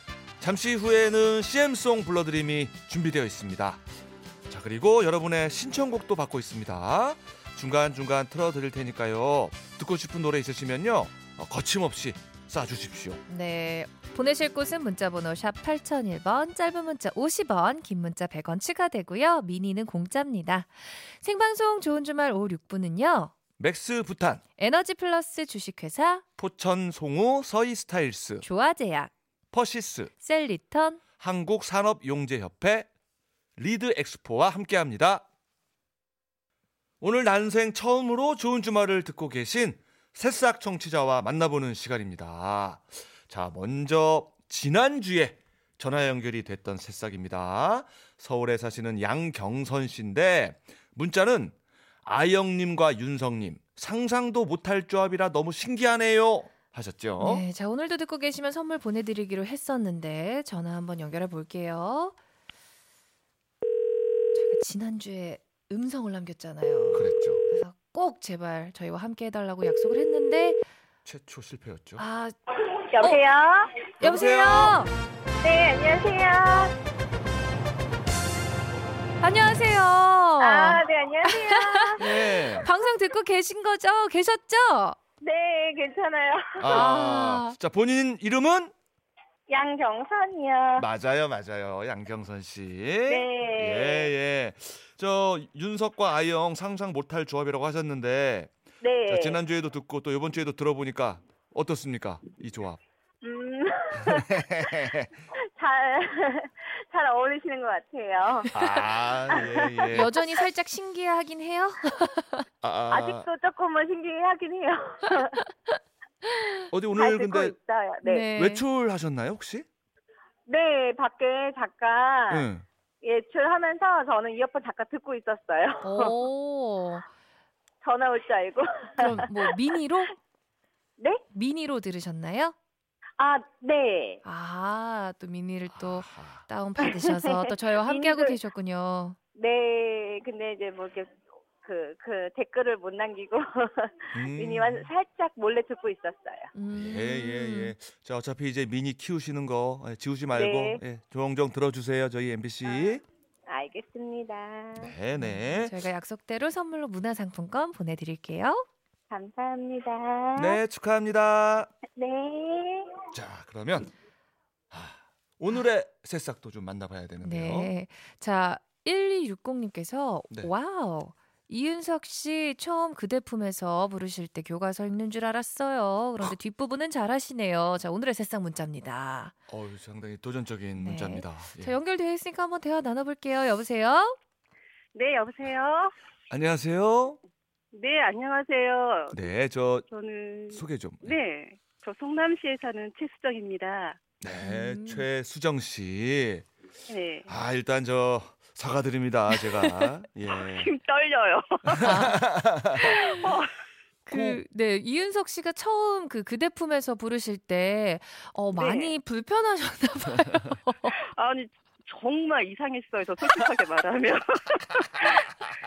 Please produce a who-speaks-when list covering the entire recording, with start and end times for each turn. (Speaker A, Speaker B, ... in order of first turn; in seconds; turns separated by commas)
Speaker A: 0.4-3.8, Speaker A: 4.5-13.2, Speaker B: 13.3-23.3, Speaker A: 23.6-24.4, Speaker B: 24.6-26.2, Speaker A: 26.4-28.4, Speaker B: 28.4-29.1, Speaker A: 29.5-30.1, Speaker B: 30.2-31.0, Speaker A: 31.2-32.9, Speaker A: 33.6-35.2, Speaker A: 37.0-57.4, Speaker B: 57.2-62.1, Speaker B: 64.3-70.6, Speaker A: 66.9-67.4, Speaker A: 71.0-72.0, Speaker B: 72.0-72.3, Speaker C: 72.5-73.8, Speaker B: 74.0-74.9, Speaker A: 74.0-74.8, Speaker C: 75.4-76.7, Speaker B: 79.2-85.0, Speaker C: 80.4-82.1, Speaker A: 82.0-82.7, Speaker C: 85.2-86.8, Speaker A: 86.6-88.7, Speaker B: 86.7-87.5, Speaker C: 89.5-90.9, Speaker A: 90.8-98.5, Speaker C: 93.1-94.1, Speaker C: 98.8-99.4, Speaker A: 99.1-102.8, Speaker C: 103.2-108.7, Speaker A: 104.0-105.1, Speaker A: 108.5-110.1, Speaker C: 109.3-110.0, Speaker B: 109.9-112.4, Speaker A: 112.6-113.2, Speaker C: 112.9-115.4, Speaker B: 116.3-116.6, Speaker A: 116.7-117.5, Speaker C: 116.9-118.3, Speaker B: 118.0-118.6, Speaker A: 118.3-119.7, Speaker C: 120.5-122.5, Speaker A: 122.3-122.6, Speaker C: 123.0-126.1, Speaker B: 125.8-127.1, Speaker C: 127.8-129.6, Speaker B: 129.0-130.1, Speaker B: 131.3-132.5, Speaker C: 133.2-134.2, Speaker B: 134.2-139.2, Speaker A: 135.7-136.4, Speaker C: 136.9-138.4, Speaker C: 139.3-146.5, Speaker A: 144.1-144.9, Speaker B: 146.5-147.7, Speaker A: 146.7-153.0, Speaker C: 150.3-150.8, Speaker C: 152.7-154.9, Speaker A: 154.7-155.8, Speaker B: 155.2-158.7, Speaker C: 159.1-160.6, Speaker A: 160.3-161.7, Speaker C: 161.9-162.9, Speaker A: 163.1-163.9, Speaker A: 164.7-167.7, Speaker B: 167.2-179.3, Speaker A: 179.5-181.7, Speaker B: 180.8-184.2, Speaker C: 184.9-185.9, Speaker A: 186.3-187.2, Speaker C: 187.7-189.2, Speaker A: 189.1-189.8, Speaker C: 189.9-194.0, Speaker A: 190.5-191.2, Speaker A: 194.2-196.5, Speaker B: 194.4-195.1, Speaker C: 196.9-197.3, Speaker A: 197.3-200.7, Speaker B: 199.5-199.9, Speaker C: 200.3-201.9, Speaker A: 201.7-203.0, Speaker B: 201.8-202.2, Speaker C: 202.8-203.5, Speaker B: 202.8-203.2, Speaker B: 204.1-210.9, Speaker A: 204.1-204.4, Speaker C: 208.5-208.9, Speaker C: 210.9-215.3